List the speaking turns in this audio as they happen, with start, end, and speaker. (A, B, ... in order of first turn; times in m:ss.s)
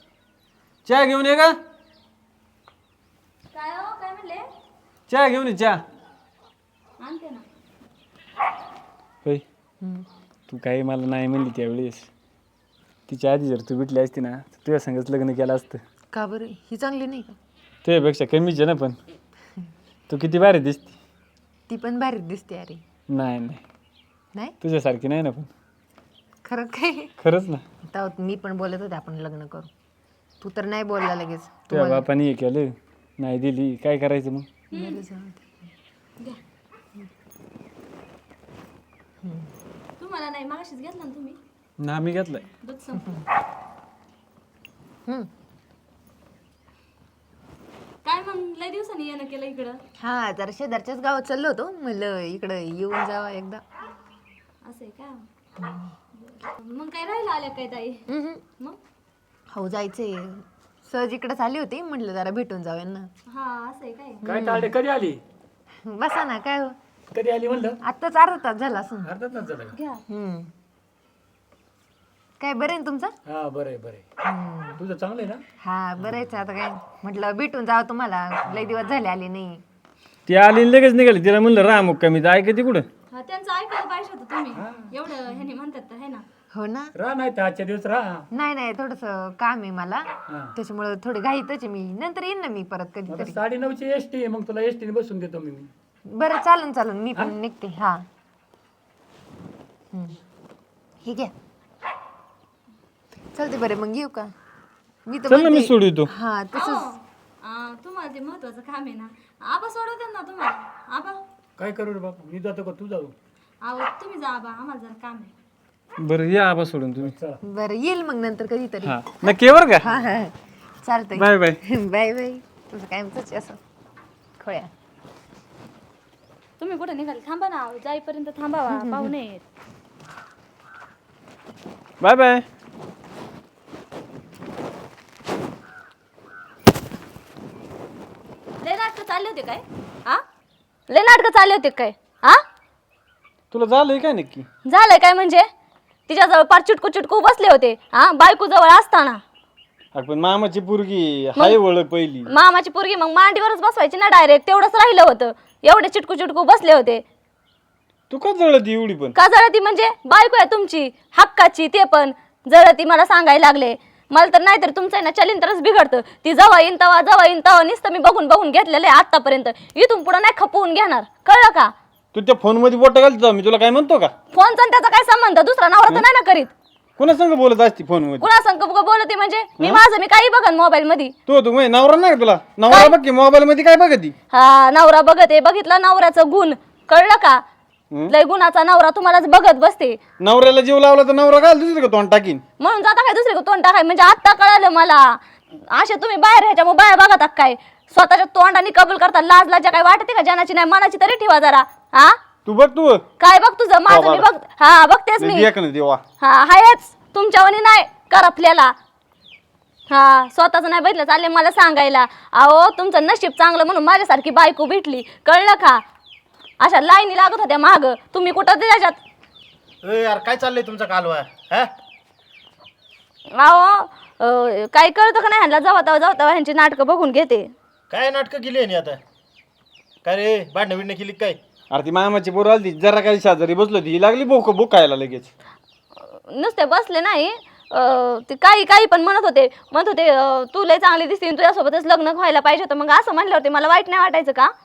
0:00.8-0:01.6 A
0:03.5-0:04.4 B
0:05.1-0:05.8 A
0:07.0-0:07.4 B
0:09.8-0:10.1 C
0:10.5-0:12.1 A
0:13.1-0:15.8 A
0:16.1-0:17.4 C
0:17.8-0:19.0 A
0:20.1-0:20.9 A
0:21.7-0:22.8 C
0:23.1-0:23.6 A
0:24.6-0:25.5 A
0:26.4-0:27.1 C
0:27.2-0:27.6 A
0:27.9-0:29.7 C
0:30.4-0:32.1 C
0:31.7-0:34.5 A
0:34.7-0:35.0 B
0:34.7-0:35.6 C
0:39.2-0:39.5 C
0:40.0-0:41.4 B
0:41.8-0:42.4 A
0:42.6-0:43.2 B
0:48.0-0:49.8 B
0:50.0-0:53.6 C
0:54.6-0:55.2 B
0:56.1-0:58.0 B
0:58.1-0:58.4 C
0:59.5-1:03.1 C
1:03.3-1:04.3 B
1:04.2-1:04.7 C
1:04.2-1:05.2 D
1:05.9-1:06.8 C
1:07.1-1:07.8 D
1:07.8-1:09.1 C
1:09.0-1:09.8 D
1:09.7-1:10.0 B
1:10.1-1:10.5 C
1:12.4-1:13.1 C
1:13.3-1:14.0 D
1:14.2-1:14.8 C
1:14.8-1:15.4 D
1:15.6-1:19.6 C
1:20.3-1:22.9 A
1:23.1-1:26.2 B
1:24.6-1:24.9 D
1:26.5-1:26.9 C
1:27.0-1:28.2 D
1:28.3-1:33.4 C
1:30.3-1:30.5 D
1:33.1-1:35.7 D
1:36.1-1:38.0 C
1:39.9-1:40.2 C
1:41.0-1:41.3 C
1:43.3-1:44.3 C
1:45.1-1:46.9 C
1:45.3-1:46.1 A
1:46.5-1:51.2 B
1:51.6-1:53.2 D
1:53.6-1:55.3 B
1:56.0-1:57.2 A
1:57.0-1:57.4 D
1:57.4-1:59.0 C
1:58.8-1:59.9 A
1:59.8-2:03.6 C
2:01.2-2:01.6 A
2:04.4-2:04.7 C
2:06.6-2:09.4 B
2:08.7-2:09.1 C
2:12.0-2:12.4 A
2:18.6-2:20.2 B
2:20.9-2:22.4 B
2:23.5-2:24.4 A
2:24.7-2:25.4 B
2:26.1-2:29.2 B
2:30.0-2:32.3 A
2:32.3-2:37.0 B
2:38.1-2:39.1 A
2:39.1-2:51.7 B
2:52.2-2:54.1 A
2:54.3-2:56.5 B
2:57.0-2:58.3 A
2:58.2-3:01.2 B
3:01.3-3:04.1 A
3:02.7-3:03.0 B
3:04.3-3:07.4 B
3:08.1-3:10.0 B
3:10.2-3:12.4 A
3:12.6-3:15.2 B
3:15.7-3:22.2 B
3:22.6-3:23.0 A
3:23.2-3:25.5 B
3:23.9-3:24.3 A
3:25.2-3:26.0 A
3:26.2-3:28.7 B
3:29.9-3:35.8 B
3:36.6-3:39.0 B
3:39.8-3:41.7 E
3:43.4-3:47.5 B
3:47.9-3:49.0 E
3:50.0-3:51.4 E
3:51.7-3:55.3 A
3:56.2-4:04.5 B